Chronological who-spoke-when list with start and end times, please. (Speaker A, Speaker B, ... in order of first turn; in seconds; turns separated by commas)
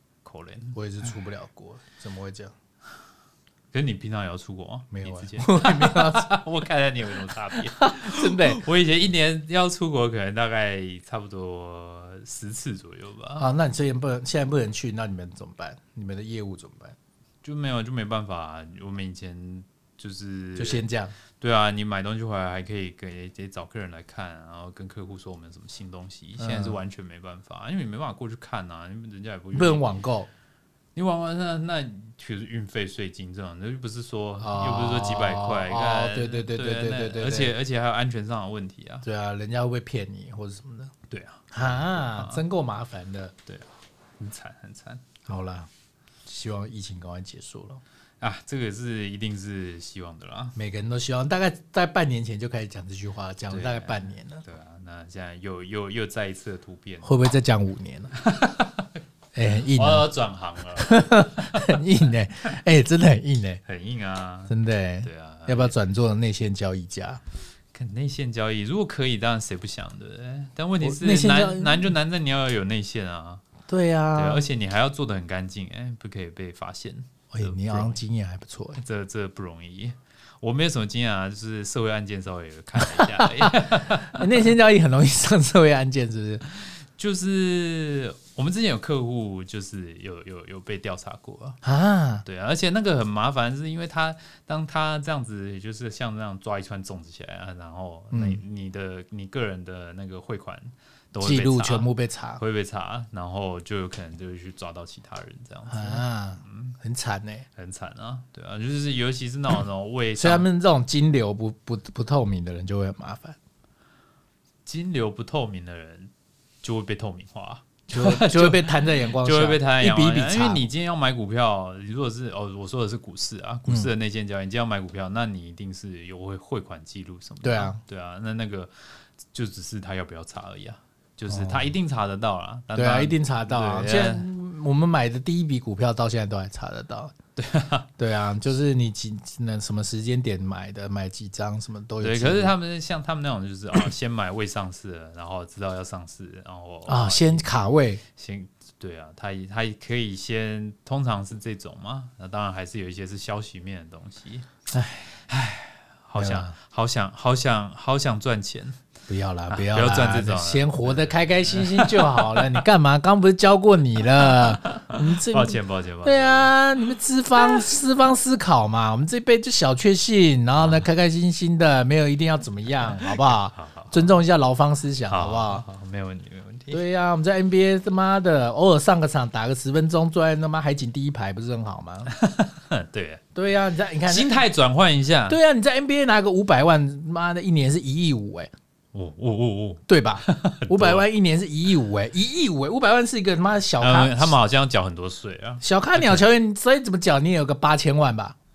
Speaker A: 0.2-0.8, Speaker B: 0.7-2.5, Speaker A: 3.7-13.5, Speaker B: 4.9-6.3, Speaker B: 7.7-8.6, Speaker B: 13.4-16.9, Speaker A: 17.4-20.9, Speaker B: 20.6-21.1, Speaker A: 21.4-30.0, Speaker B: 26.4-26.8, Speaker B: 29.5-30.3, Speaker A: 30.9-39.0, Speaker B: 34.4-37.5, Speaker B: 39.0-40.9, Speaker A: 41.1-42.4, Speaker B: 41.5-43.3, Speaker A: 43.5-45.2, Speaker B: 45.3-45.7, Speaker B: 46.3-47.8, Speaker A: 48.2-50.5, Speaker B: 50.5-54.5, Speaker A: 53.5-57.1, Speaker B: 57.0-58.1, Speaker A: 58.2-59.0, Speaker B: 59.4-60.1, Speaker A: 59.6-61.8, Speaker B: 60.8-63.6, Speaker A: 63.7-65.7, Speaker B: 64.5-67.2, Speaker A: 67.7-73.4, Speaker B: 70.8-71.9, Speaker B: 73.7-74.4, Speaker A: 74.2-78.0, Speaker B: 77.3-78.8, Speaker A: 78.8-84.5, Speaker B: 82.8-86.4, Speaker A: 86.7-91.6, Speaker B: 91.6-92.2, Speaker A: 92.2-106.8, Speaker B: 98.1-98.4, Speaker B: 101.2-102.4, Speaker B: 105.7-107.5, Speaker A: 107.6-110.5, Speaker B: 110.2-113.4, Speaker A: 114.7-128.7, Speaker B: 117.9-120.7, Speaker B: 127.4-127.8, Speaker A: 129.3-134.3, Speaker B: 131.3-131.7, Speaker B: 132.8-137.2, Speaker A: 137.4-137.9, Speaker B: 138.0-142.5, Speaker A: 142.0-147.5, Speaker B: 146.9-148.0, Speaker A: 148.2-154.5, Speaker B: 154.7-155.1, Speaker A: 155.3-158.8, Speaker B: 156.2-156.5, Speaker B: 159.1-175.6, Speaker A: 159.5-162.6, Speaker A: 164.2-166.5, Speaker A: 167.4-167.7, Speaker A: 170.6-170.9, Speaker A: 172.9-174.1, Speaker A: 175.1-176.8, Speaker B: 176.7-182.1, Speaker A: 182.1-183.2, Speaker B: 183.3-184.4, Speaker A: 184.1-185.4, Speaker B: 185.3-188.5, Speaker A: 188.9-191.1, Speaker B: 189.9-194.4, Speaker A: 193.8-196.3, Speaker B: 195.6-198.4